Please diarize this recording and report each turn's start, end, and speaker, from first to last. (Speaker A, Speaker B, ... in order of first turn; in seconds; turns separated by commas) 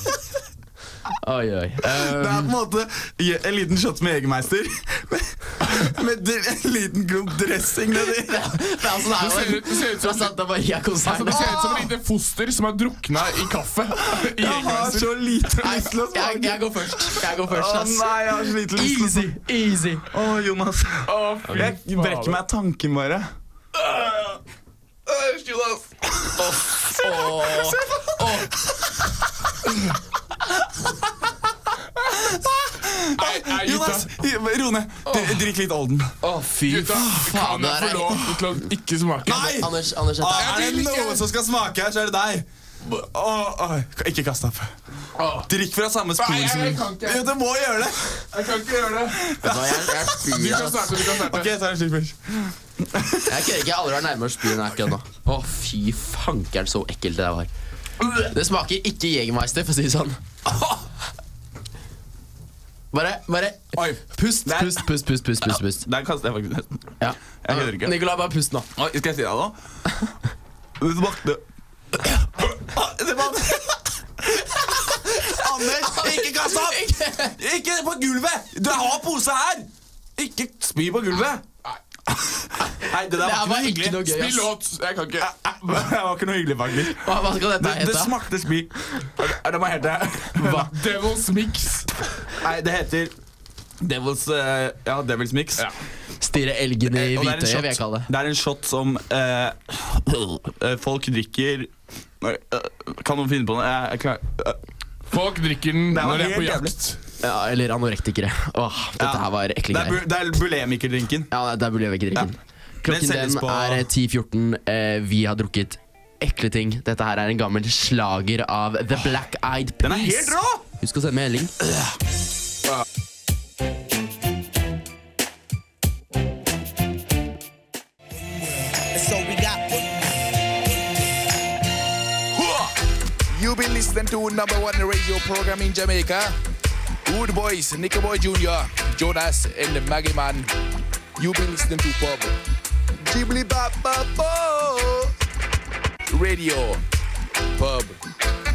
Speaker A: 1.2-2.5, Speaker B: 1.9-8.5, Speaker A: 8.1-11.8, Speaker C: 9.2-10.4, Speaker C: 11.0-15.2, Speaker B: 11.3-11.6, Speaker B: 14.1-19.4, Speaker A: 15.6-20.1, Speaker B: 20.1-23.3, Speaker C: 21.1-22.4, Speaker C: 23.8-24.4, Speaker C: 25.1-25.9, Speaker A: 26.4-28.5, Speaker B: 32.1-36.1, Speaker C: 33.2-34.1, Speaker C: 35.1-35.4, Speaker A: 36.2-38.4, Speaker C: 36.7-39.7, Speaker B: 39.2-44.7, Speaker A: 39.3-40.8, Speaker C: 40.4-41.2, Speaker C: 45.2-45.5, Speaker B: 45.5-48.0, Speaker C: 46.2-47.3, Speaker C: 48.3-49.3, Speaker B: 49.3-50.0, Speaker A: 49.4-51.0, Speaker C: 50.2-51.5, Speaker B: 51.2-53.4, Speaker A: 53.3-57.5, Speaker A: 58.2-60.2, Speaker A: 62.9-65.8, Speaker B: 63.7-64.9, Speaker B: 65.4-68.0, Speaker A: 67.0-68.7, Speaker B: 68.8-69.6, Speaker B: 70.8-71.4, Speaker B: 72.1-81.5, Speaker A: 75.3-77.3, Speaker B: 82.1-84.1, Speaker A: 83.1-84.5, Speaker C: 84.1-85.3, Speaker B: 85.2-90.7, Speaker A: 86.9-88.2, Speaker C: 90.4-91.9, Speaker B: 92.4-93.1, Speaker B: 93.8-95.7, Speaker A: 96.2-98.1, Speaker B: 96.9-104.6, Speaker C: 105.1-107.0, Speaker B: 105.9-106.8, Speaker A: 107.2-110.0, Speaker B: 109.0-111.3, Speaker A: 111.3-121.5, Speaker B: 112.8-113.9, Speaker B: 119.8-120.6, Speaker D: 128.3-130.2, Speaker D: 132.3-132.7, Speaker D: 133.3-136.4, Speaker D: 137.1-140.5, Speaker D: 141.2-142.4, Speaker D: 143.0-145.1, Speaker D: 146.1-146.8, Speaker D: 147.6-148.0